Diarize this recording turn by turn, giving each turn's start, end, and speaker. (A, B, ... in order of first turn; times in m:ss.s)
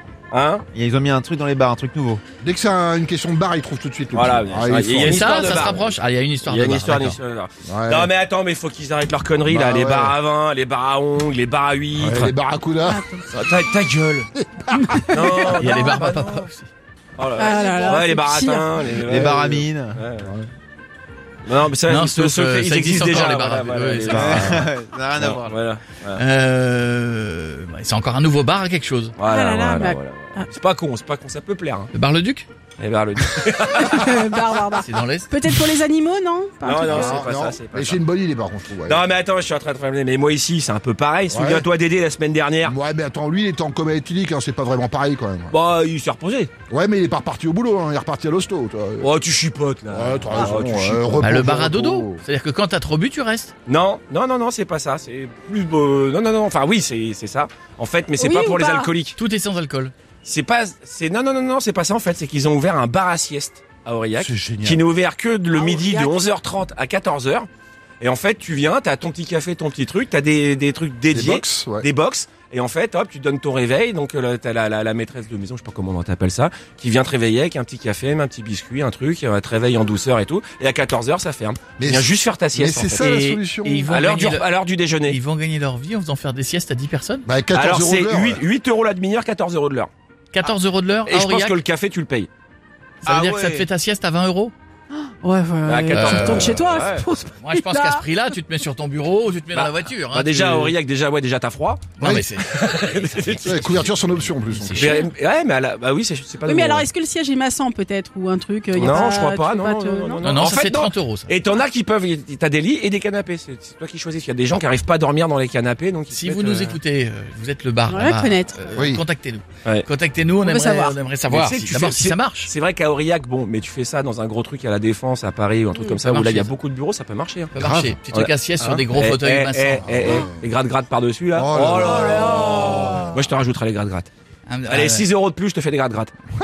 0:00.3-0:00.6 A
0:00.7-0:02.2 B
0:02.4-0:05.8 C
0:04.1-0:12.3 A
0:05.0-0:07.2 D
0:07.6-0:08.1 C
0:09.4-0:10.2 C
0:12.0-0:13.1 C
0:12.8-0:13.2 E
0:13.3-0:14.3 A
0:14.4-0:15.4 C
0:14.8-0:15.2 E
0:15.1-0:16.5 A
0:15.5-0:16.7 D
0:17.2-0:20.3 A
0:17.4-0:18.9 E
0:19.0-0:20.0 B
0:19.1-0:19.4 C
0:20.2-0:20.5 C
0:21.4-0:26.2 A
0:21.8-0:24.7 D
0:24.1-0:25.6 B
0:26.1-0:29.1 D
0:29.2-0:31.9 A
0:29.2-0:30.5 E
0:31.9-0:32.5 D
0:32.8-0:34.2 A
0:33.7-0:37.2 E
0:34.7-0:35.4 D
0:36.6-0:38.0 A
0:36.9-0:39.0 C
0:38.8-0:42.8 A
0:41.3-0:41.6 C
0:42.6-0:45.5 C
0:45.5-0:46.5 A
0:46.7-0:49.1 C
0:49.0-0:51.3 A
0:49.9-0:52.2 C
0:51.2-0:53.5 D
0:53.7-0:59.2 A
0:58.2-0:58.9 E
0:59.2-0:59.9 D
1:00.2-1:07.5 A
1:04.2-1:04.8 B
1:05.5-1:06.3 E
1:08.0-1:25.2 A
1:11.1-1:11.9 C
1:21.8-1:23.9 C
1:23.6-1:24.5 D
1:25.0-1:27.2 D
1:27.2-1:28.4 C
1:27.5-1:29.9 A
1:30.3-1:31.6 D
1:31.0-1:32.3 A
1:33.0-1:34.5 D
1:33.0-1:33.6 A
1:34.9-1:38.0 E
1:35.6-1:37.1 A
1:35.9-1:36.7 D
1:37.3-1:40.7 D
1:39.5-1:41.9 A
1:42.0-1:45.0 D
1:42.0-1:42.2 C
1:42.4-1:43.6 A
1:43.4-1:45.0 C
1:44.7-1:46.9 A
1:46.4-1:50.4 E
1:48.7-1:56.8 A
1:50.2-1:51.3 D
1:56.1-2:02.5 D
1:57.9-1:58.7 E
1:58.8-1:59.0 C
2:00.4-2:01.0 E
2:01.3-2:14.1 A
2:06.0-2:06.5 D
2:07.5-2:10.2 D
2:07.6-2:07.9 C
2:09.8-2:10.4 C
2:11.3-2:13.3 C
2:11.8-2:13.1 E
2:14.5-2:15.0 D
2:14.7-2:16.1 A